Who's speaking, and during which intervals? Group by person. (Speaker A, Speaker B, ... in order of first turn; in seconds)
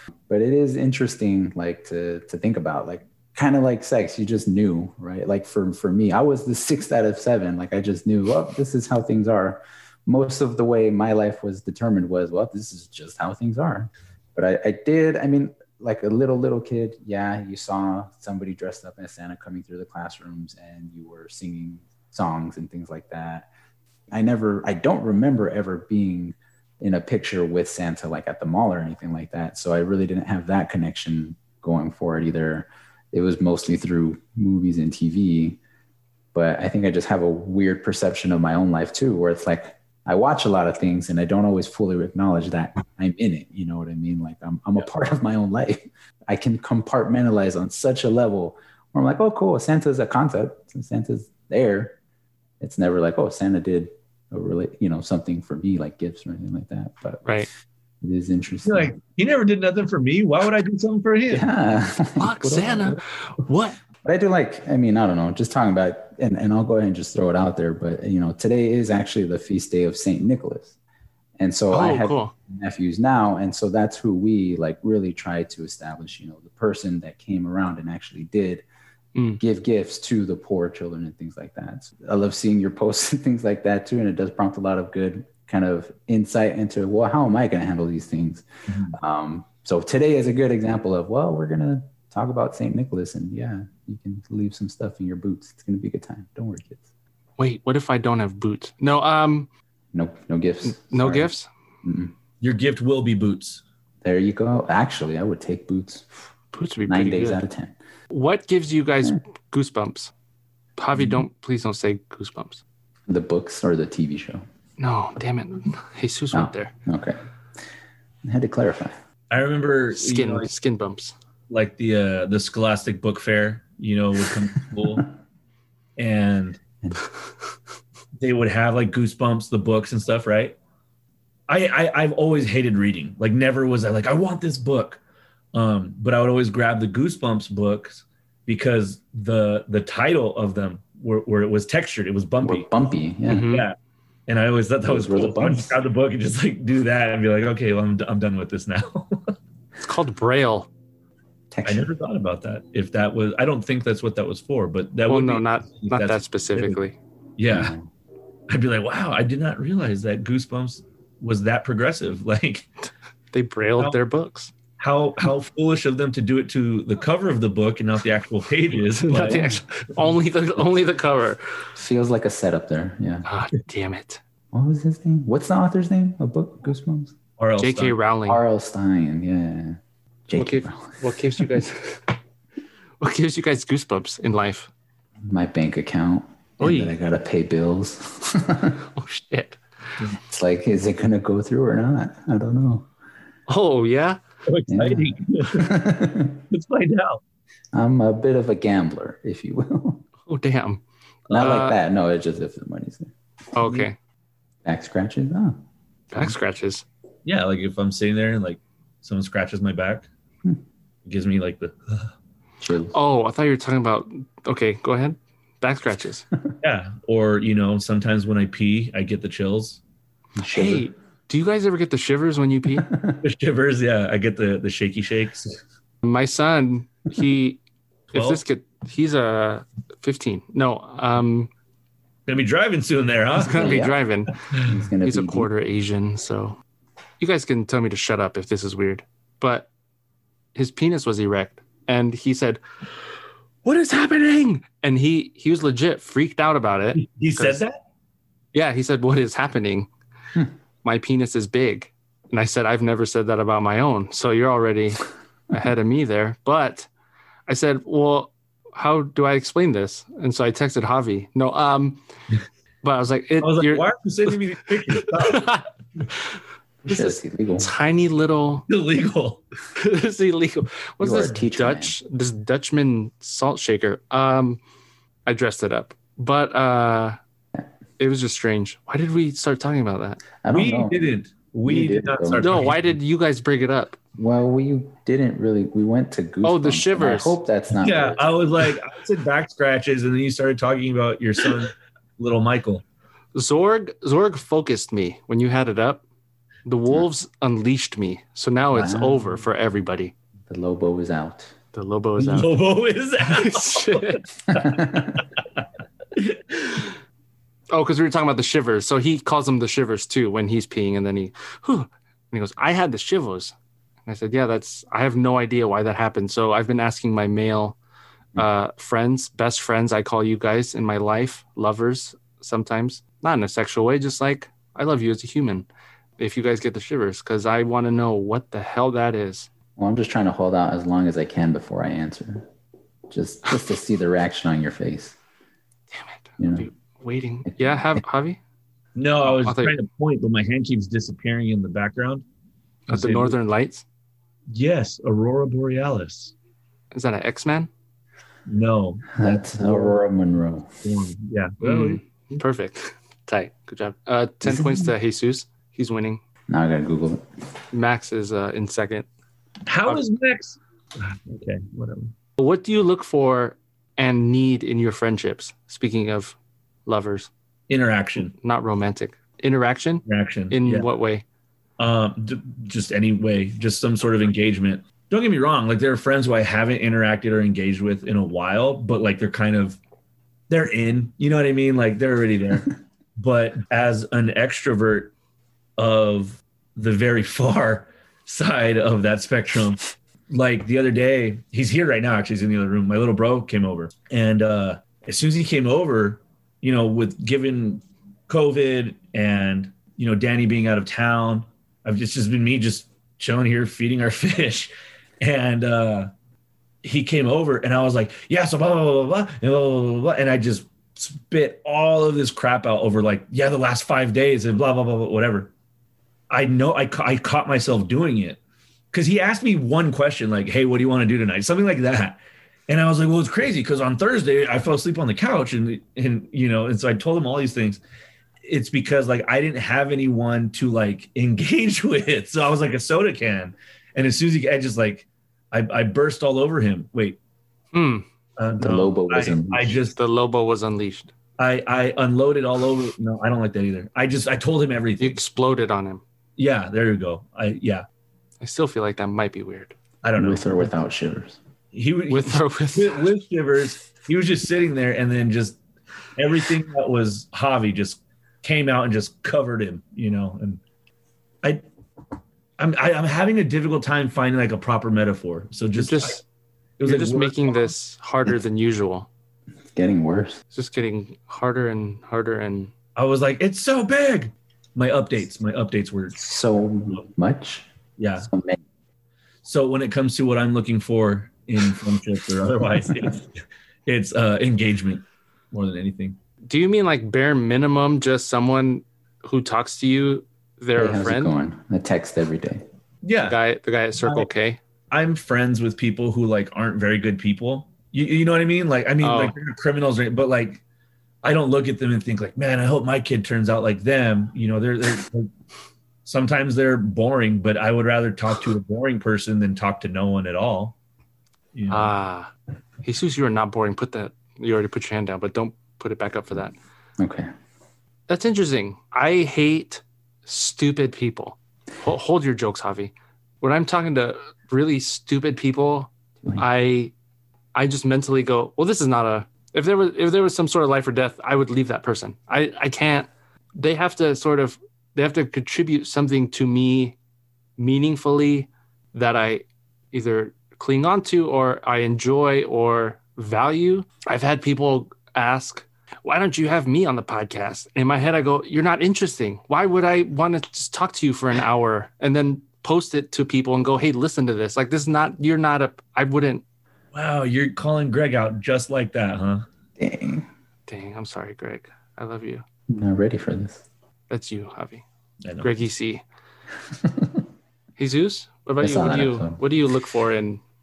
Speaker A: 0.3-23.5, 24.1-35.6, 36.3-52.0, 52.6-57.4, 58.0-58.9, 61.3-63.0, 64.0-70.7, 71.4-78.6, 79.4-96.8, 99.9-101.3, 101.8-102.1, 104.0-106.1, 106.8-107.7, 113.1-114.4, 116.3-117.2, 118.2-119.0, 142.4-143.5, 144.8-145.8, 151.5-151.9, 157.5-157.9, 169.2-169.6, 171.8-173.2, 174.5-177.1, 178.3-181.4, 185.3-188.8, 190.3-192.9, 194.7-196.4, 197.7-200.0, 201.3-203.1, 204.6-205.6, 212.6-212.9, 220.4-220.9, 222.8-223.2, 233.5-234.0, 234.6-235.5, 266.9-267.7, 271.0-271.9, 280.4-281.0, 281.6-282.5, 284.2-288.2, 298.7-299.3, 300.5-301.5, 304.5-305.2, 329.8-332.5, 333.1-335.1, 336.4-336.7, 337.4-338.0, 349.1-350.8, 354.4-354.9, 356.5-357.2, 438.6-439.9, 450.2-451.4, 469.7-470.4, 476.2-477.7, 478.2-478.6, 490.8-492.6, 517.0-517.3, 559.8-560.3, 562.7-563.6, 566.8-567.2, 568.6-569.4
Speaker B: 58.6-61.5, 88.7-88.9, 102.4-103.6, 119.3-120.5, 121.5-125.1, 126.0-126.6, 128.2-130.6, 131.5-135.0, 135.5-142.7, 143.5-143.8, 144.3-149.3, 151.6-156.8, 157.4-157.7, 158.5-162.7, 164.8-169.5, 177.4-177.9, 194.4-195.7, 196.5-197.2, 207.2-210.1, 211.1-212.1, 216.6-219.8, 223.2-225.6, 228.1-228.4, 232.3-233.8, 246.9-247.8, 263.4-265.5, 268.7-269.4, 280.5-282.9, 287.8-292.8, 302.2-304.8, 306.1-306.6, 338.9-342.2, 342.9-343.4, 344.5-346.3, 348.4-350.0, 350.8-352.4, 359.6-362.1, 367.7-368.3, 370.1-370.9, 371.8-379.8, 380.5-385.1, 385.8-406.1, 406.8-415.5, 416.3-418.4, 418.9-427.8, 428.4-437.2, 438.4-439.9, 441.4-445.2, 446.4-447.9, 450.0-450.7, 451.7-455.6, 456.1-460.6, 462.6-466.2, 466.8-467.7, 472.9-476.2, 478.0-478.3, 479.4-483.3, 483.9-486.1, 493.0-493.4, 494.9-500.6, 501.2-505.3, 506.0-510.8, 511.5-511.9, 556.9-559.4
Speaker C: 62.2-63.8, 71.7-72.3, 79.1-79.4, 97.4-99.5, 100.6-101.5, 106.5-107.4, 108.1-110.1, 110.8-112.6, 114.8-116.7, 119.9-121.1, 143.3-143.7, 149.8-150.7, 155.1-156.9, 163.3-164.5, 168.9-171.4, 173.2-174.2, 177.6-178.4, 180.3-182.1, 183.0-184.7, 186.6-186.9, 188.9-189.6, 193.5-194.2, 200.2-201.8, 203.5-203.9, 206.1-206.8, 212.9-216.2, 220.4-222.9, 226.0-227.6, 228.1-231.5, 233.4-234.4, 235.0-236.6, 237.2-239.7, 240.5-242.6, 243.6-247.6, 248.5-249.9, 250.8-256.9, 257.5-262.0, 262.8-263.9, 264.9-266.3, 266.8-268.6, 269.8-274.6, 275.2-277.2, 278.0-280.2, 282.4-284.0, 286.4-287.4, 293.3-296.0, 296.6-300.1, 301.7-302.5, 303.2-304.2, 307.7-313.5, 314.1-317.8, 318.4-325.7, 326.2-329.5, 335.9-338.4, 339.3-339.7, 342.9-343.8, 346.9-347.7, 351.6-356.2, 357.7-359.1, 362.4-367.3, 368.4-371.2, 437.7-438.0, 439.9-441.1, 445.0-446.0, 448.4-449.7, 452.1-453.1, 465.8-466.2, 466.8-469.1, 470.5-472.7, 486.4-491.4, 493.2-494.6, 499.0-499.3, 511.7-512.3, 512.8-516.5, 518.1-526.9, 527.5-537.0, 537.6-556.4, 560.7-562.4, 564.1-564.8, 565.4-566.0, 567.8-570.4